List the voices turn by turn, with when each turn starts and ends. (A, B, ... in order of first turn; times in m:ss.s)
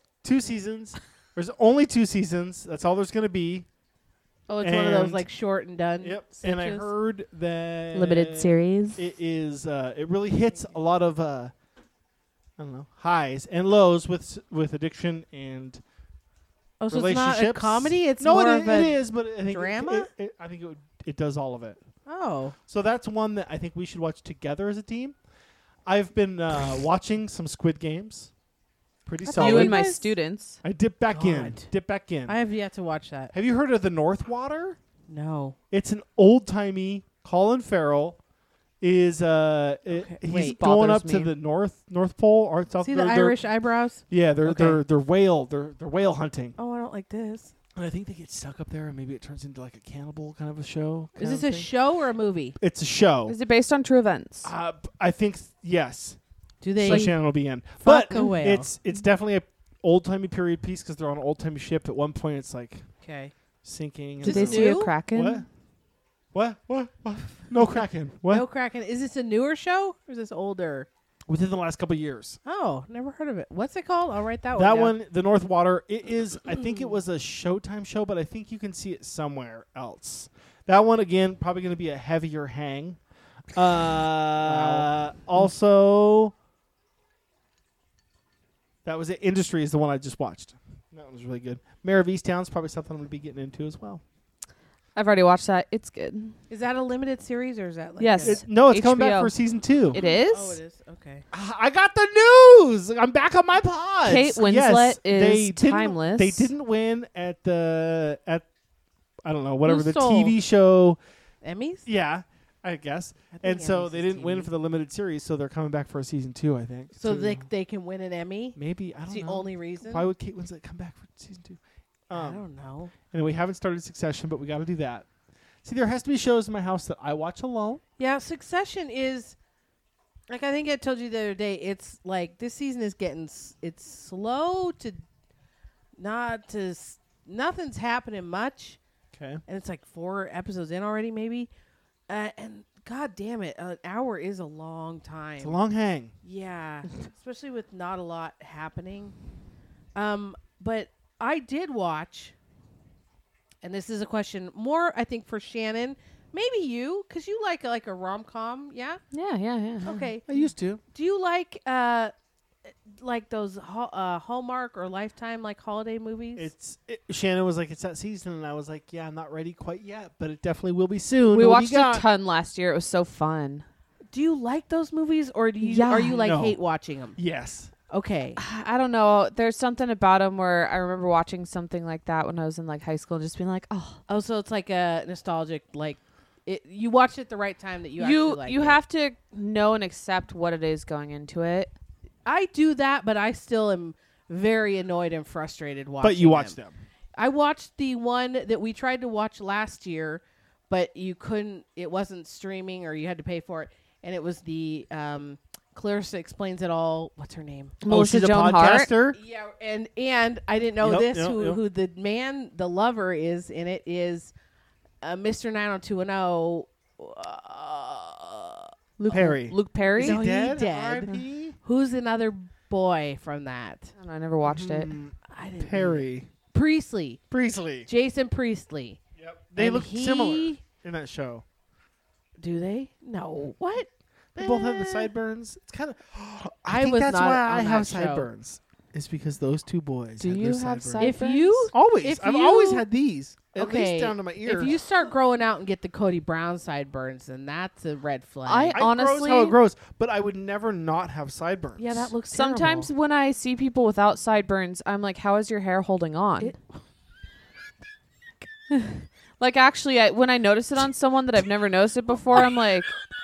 0:00.2-0:03.7 A
0:04.5-0:06.9 B
0:04.6-0:05.3 A
0:06.0-0:11.5 A
0:07.9-0:09.0 C
0:12.6-0:15.8 A
0:16.8-0:20.1 B
0:16.9-0:21.8 A
0:22.1-0:22.6 B
0:22.7-0:25.2 A
0:25.9-0:28.3 A
0:29.1-0:29.8 A
0:29.2-0:30.1 B
0:29.4-0:30.6 C
0:30.6-0:32.4 A
0:31.1-0:31.7 B
0:32.3-0:33.3 B
0:33.3-0:34.8 A
0:35.1-0:35.6 B
0:35.7-0:38.2 A
0:38.8-0:43.4 A
0:39.9-0:40.6 B
0:40.3-0:41.3 C
0:42.8-0:44.8 B
0:44.1-0:46.6 A
0:46.6-0:47.5 B
0:47.8-0:51.6 A
0:51.2-0:52.6 B
0:52.6-0:53.4 A
0:53.3-0:54.5 C
0:54.4-0:56.2 A
0:56.6-0:57.2 B
0:56.8-1:02.8 A
0:57.8-0:58.7 B
1:03.0-1:03.3 B
1:03.6-1:05.5 A
1:04.2-1:04.9 B
1:04.2-1:05.4 C
1:06.3-1:08.4 A
1:08.3-1:10.9 B
1:11.3-1:12.4 A
1:12.4-1:14.9 B
1:14.6-1:23.0 A
1:23.5-1:26.3 A
1:24.4-1:24.9 B
1:28.8-1:34.0 A
1:35.0-1:36.4 C
1:36.5-1:38.4 B
1:38.0-1:39.3 C
1:38.2-1:40.0 A
1:39.9-1:40.6 C
1:39.9-1:41.2 B
1:41.3-1:48.5 A
1:44.0-1:46.5 C
1:49.2-1:51.0 A
1:49.6-1:50.4 B
1:51.4-1:51.9 B
1:51.9-1:57.5 A
1:53.4-1:54.5 B
1:57.0-1:58.6 B
1:58.6-2:01.6 A
1:59.1-2:00.1 B
2:02.1-2:02.4 A
2:02.1-2:02.9 B
2:03.0-2:05.1 A
2:05.6-2:07.8 A
2:08.0-2:09.4 B
2:10.3-2:15.0 B
2:16.0-2:18.8 B
2:19.1-2:19.4 A
2:19.5-2:21.5 B
2:22.1-2:25.6 B
2:25.4-2:26.1 A
2:26.2-2:29.1 B
2:30.0-2:32.4 B
2:33.6-2:39.0 B
2:39.1-2:40.1 C
2:39.8-2:42.1 B
2:40.3-2:40.8 A
2:42.7-2:46.5 B
2:46.4-2:52.1 A
2:51.3-2:53.6 C
2:54.1-2:57.2 B
2:55.6-2:56.3 C
2:56.2-2:56.6 A
2:57.2-2:57.7 A
2:57.9-2:58.4 B
2:58.4-3:04.0 C
3:04.1-3:08.8 B
3:08.0-3:11.7 C
3:12.2-3:16.6 B
3:16.0-3:16.8 A
3:17.2-3:27.8 B
3:27.8-3:28.9 C
3:27.9-3:29.2 A
3:29.1-3:34.3 B
3:30.8-3:31.6 A
3:35.0-3:39.3 B
3:39.0-3:40.2 C
3:39.1-3:41.6 A
3:40.0-3:44.0 B
3:44.0-3:44.9 C
3:44.4-3:46.3 A
3:45.3-3:47.2 B
3:47.3-3:47.9 A
3:47.9-3:49.0 B
3:49.2-3:51.4 A
3:49.6-3:50.6 B
3:52.4-3:55.1 B
3:54.4-4:01.1 A
3:56.7-3:58.3 B
4:00.2-4:01.7 C
4:01.0-4:02.9 B
4:01.7-4:04.8 A
4:03.5-4:08.8 B
4:08.5-4:09.6 C
4:08.7-4:12.1 A
4:11.8-4:12.9 B
4:12.3-4:16.5 C
4:16.4-4:16.8 B
4:18.7-4:22.9 C